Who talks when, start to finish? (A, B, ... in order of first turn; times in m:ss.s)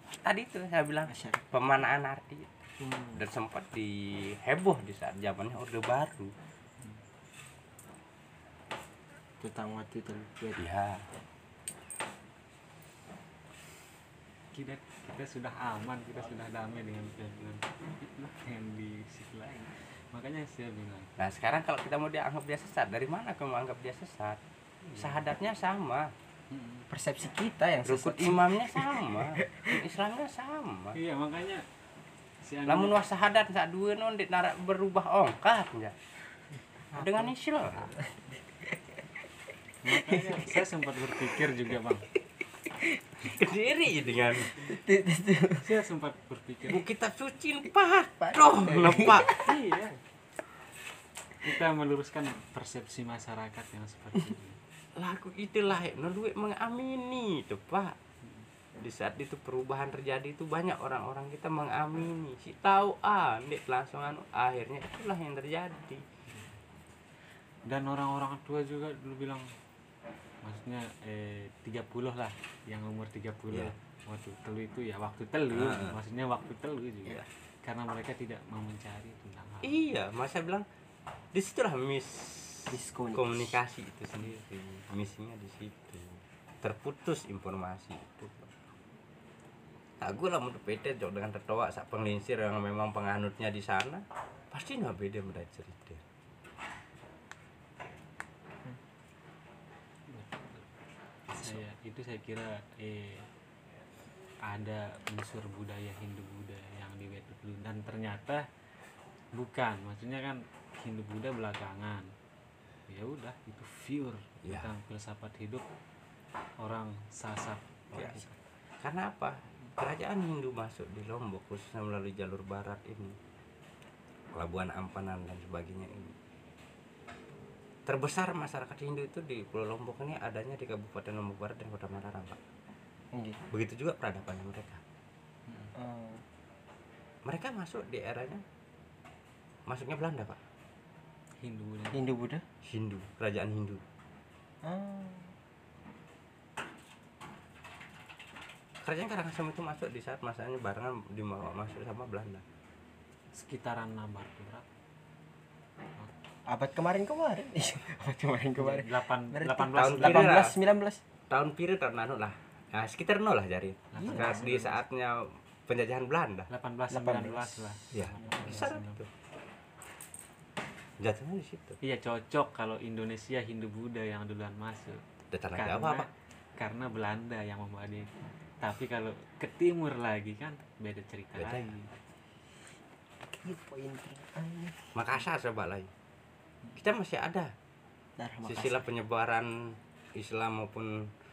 0:00.2-0:02.6 A
0:01.1-0:01.4 B
0:02.8-0:03.2 B
0:03.1-0:06.3 A
0:09.4-0:10.6 B
0:10.6-0:11.1 A
0:14.5-0:21.1 C
0:21.2-0:24.4 A
0:24.8-0:25.2 C
0:25.0-0:26.1 A
0:26.5-0:26.9 C
0:26.9-0:29.8 B
0:27.8-0:31.0 A
0:30.9-0:31.6 C
0:32.4-0:33.0 C
0:32.7-0:36.0 A
0:36.9-0:38.0 A
0:36.9-0:38.8 B
0:39.8-0:42.1 C
0:39.9-0:40.6 B
0:42.8-0:43.2 B
0:43.2-0:44.6 A
0:44.5-0:45.7 B
0:45.6-0:46.8 C
0:46.7-0:49.4 A
0:48.2-0:49.5 B
0:49.2-0:50.0 C
0:51.4-0:54.6 C
0:55.0-0:58.0 A
0:58.8-1:06.0 A
1:06.3-1:06.6 C
1:07.6-1:09.5 C
1:10.4-1:19.8 C
1:15.5-1:16.0 A
1:19.6-1:20.6 A
1:21.3-1:28.5 A
1:22.7-1:23.5 B
1:30.0-1:36.0 A
1:40.1-1:40.7 C
1:41.3-1:43.3 C
1:44.4-1:48.5 C
1:49.3-1:52.1 C
1:52.9-1:55.7 C
1:54.4-1:54.7 A
1:56.6-1:58.3 C
1:58.0-1:58.2 B
1:58.8-2:03.2 A
2:04.3-2:06.2 A
2:07.8-2:12.4 A
2:13.1-2:13.4 B
2:13.5-2:14.8 A
2:15.5-2:15.7 C
2:15.7-2:16.2 B
2:17.2-2:18.4 A
2:19.7-2:20.4 A
2:21.4-2:22.0 C
2:21.9-2:22.4 B
2:22.6-2:23.8 A
2:24.6-2:25.3 B
2:28.8-2:32.4 A
2:33.3-2:34.7 C
2:36.5-2:41.0 B
2:38.6-2:40.3 C
2:39.8-2:40.6 A
2:41.3-2:46.5 A
2:43.9-2:44.8 C
2:44.0-2:44.5 B
2:46.5-2:49.0 C
2:46.9-2:47.8 B
2:47.9-2:49.1 A
2:51.0-2:51.8 A
2:51.8-2:55.0 C
2:55.3-2:56.1 A
2:55.5-2:58.1 C
2:58.6-3:02.0 C
3:01.4-3:01.7 A
3:03.3-3:05.2 B
3:04.9-3:05.9 A
3:06.8-3:07.5 A
3:08.2-3:08.9 B
3:08.4-3:11.1 A